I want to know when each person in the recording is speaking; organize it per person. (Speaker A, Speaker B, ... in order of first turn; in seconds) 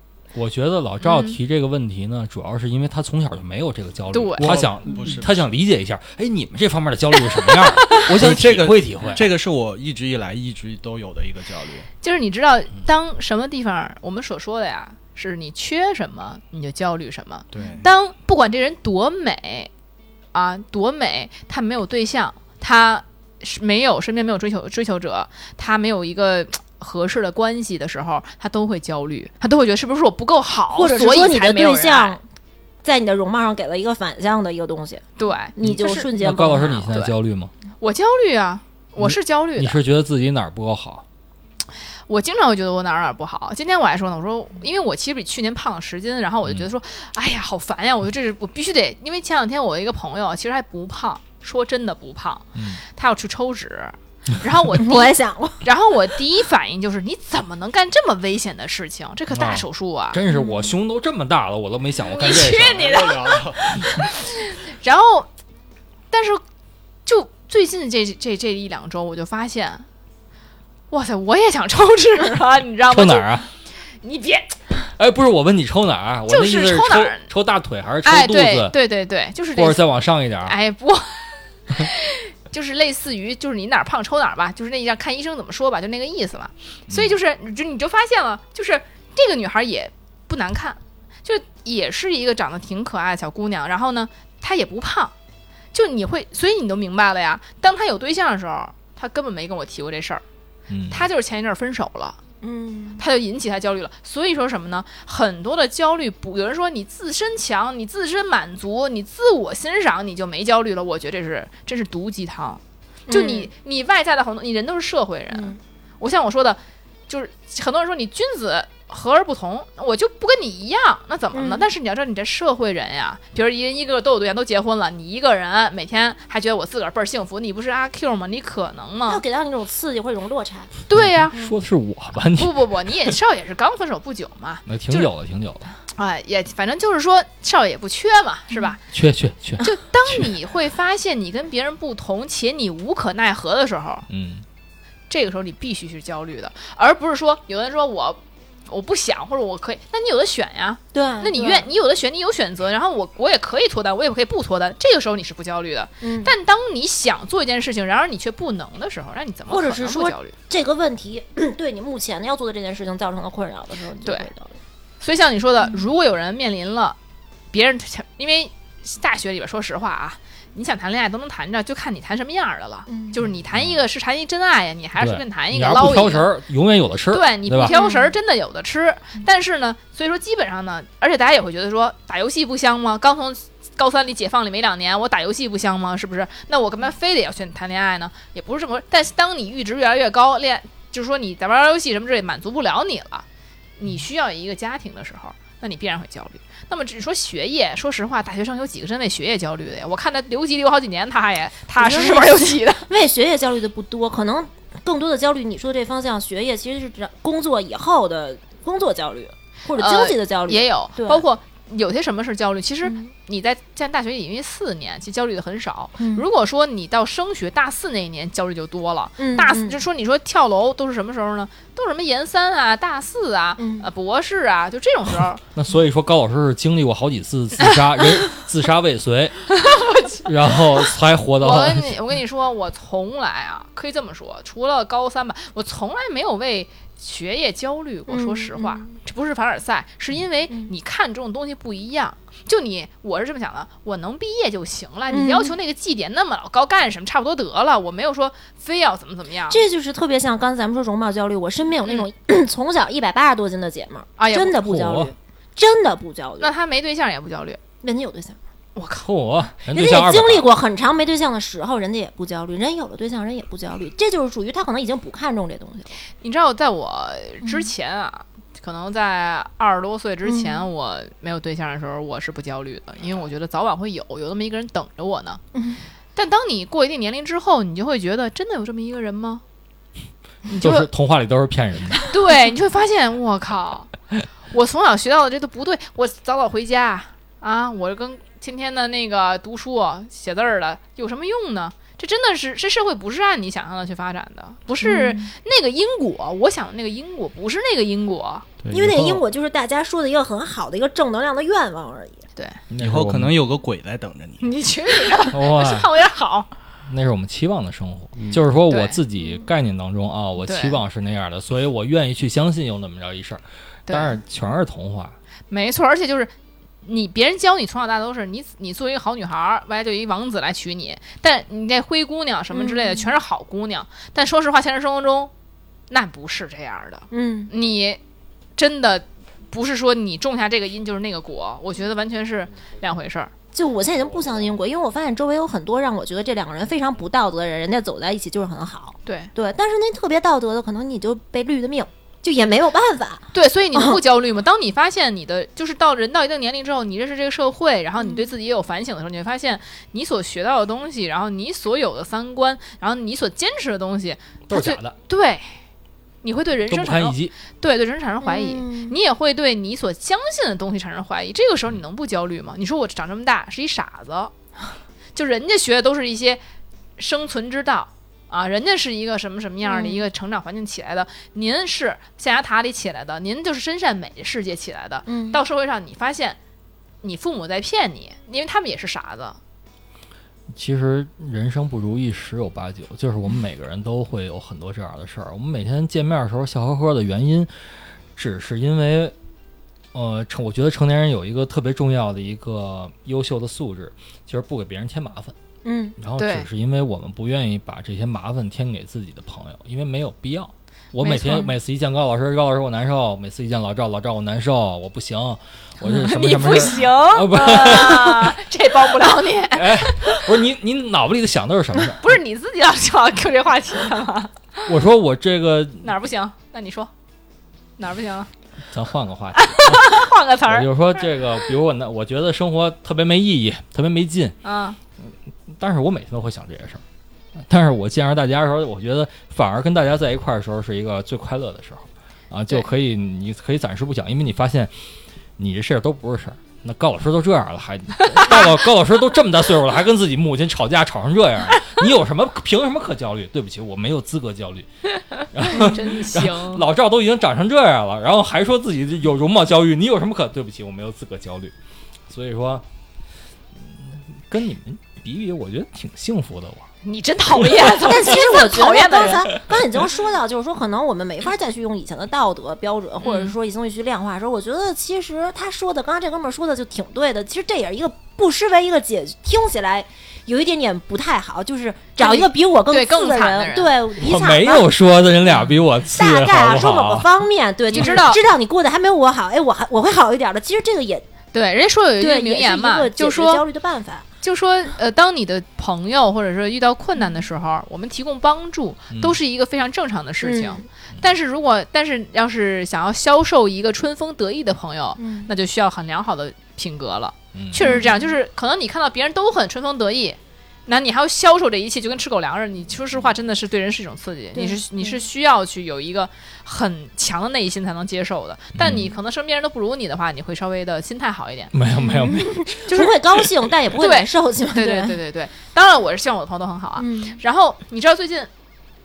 Speaker A: 0.3-9.3, 35.6-37.5, 39.0-41.0, 52.5-52.8, 59.3-63.1, 72.9-73.5, 75.0-78.8, 79.5-80.6, 86.9-87.2, 100.7-101.1, 130.9-132.6, 134.7-135.7, 138.9-140.2, 144.1-144.4, 175.0-177.8, 225.5-229.6, 230.1-232.0, 254.6-255.1, 259.0-260.5, 280.6-282.1, 298.7-299.2, 302.7-303.4, 305.3-305.9, 306.9-315.2, 354.5-355.0, 356.7-357.3, 380.5-387.5, 388.2-389.1, 389.9-395.4, 396.0-408.4, 409.5-412.1, 414.7-415.9, 418.7-424.4, 425.5-426.8, 427.4-434.7, 435.4-444.7, 445.2-451.5, 452.1-452.6, 453.6-456.7, 474.0-477.1, 488.9-489.2, 497.4-497.8, 508.6-508.9, 511.5-512.9
Speaker B: 1.0-1.4, 4.1-4.6, 12.0-19.7, 20.3-32.2, 35.2-36.1, 36.8-37.1, 37.8-39.8, 42.1-60.2, 62.1-65.3, 66.1-66.4, 67.1-69.9, 70.9-73.3, 74.0-74.6, 76.3-77.3, 78.0-79.8, 80.5-95.1, 95.7-100.2, 100.9-102.2, 103.0-129.2, 130.9-131.4, 132.4-135.1, 135.9-138.8, 139.6-144.1, 145.1-160.3, 164.1-164.3, 165.0-167.0, 167.5-176.3, 177.1-193.3, 193.8-202.9, 209.8-225.4, 229.6-230.2, 231.4-249.6, 254.2-254.6, 256.4-257.6, 258.8-259.1, 266.2-275.4, 276.1-279.4, 280.5-280.9, 282.1-283.9, 284.5-298.5, 304.4-306.5, 308.7-309.0, 310.4-310.8, 313.9-314.2, 315.5-316.3, 316.8-325.3, 325.9-328.0, 328.6-333.3, 339.1-339.3, 343.3-355.6, 356.2-364.3, 365.1-366.4, 367.0-376.4, 377.0-379.4, 396.2-396.5, 401.0-401.5, 405.8-410.3, 412.0-414.7, 415.8-416.9, 417.8-418.3, 419.4-420.7, 424.4-424.8, 438.1-438.4, 445.2-446.6, 456.9-459.4, 463.0-463.3, 472.0-473.8, 477.7-478.2, 481.3-483.4, 484.2-511.5, 513.8-518.3
Speaker C: 4.4-5.5, 8.0-11.9, 17.5-17.9, 62.5-63.7, 298.7-298.9, 302.8-304.6
Speaker D: 30.7-32.2, 32.8-36.9, 54.8-55.6, 60.3-60.7, 102.4-103.0, 113.1-113.5, 115.3-115.6, 121.3-121.7, 129.1-130.7, 138.5-138.8, 150.9-151.7, 156.0-156.3, 159.5-164.6, 172.9-173.2, 177.6-178.2, 201.8-211.2, 212.8-213.1, 216.0-216.3, 219.2-219.8, 223.6-223.9, 238.1-238.9, 245.1-245.5, 249.5-256.5, 257.8-258.4, 259.7-265.9, 267.4-267.7, 270.2-270.7, 275.5-275.8, 294.8-295.3, 298.7-302.2, 322.5-323.1, 327.1-327.5, 333.5-344.0, 348.0-348.2, 358.2-359.0, 369.6-370.1, 375.1-375.4, 395.6-396.0, 457.8-474.7, 475.9-481.1, 482.0-484.1, 490.2-490.7, 495.0-495.3, 497.6-498.1, 504.4-505.0, 511.8-515.0, 516.8-517.2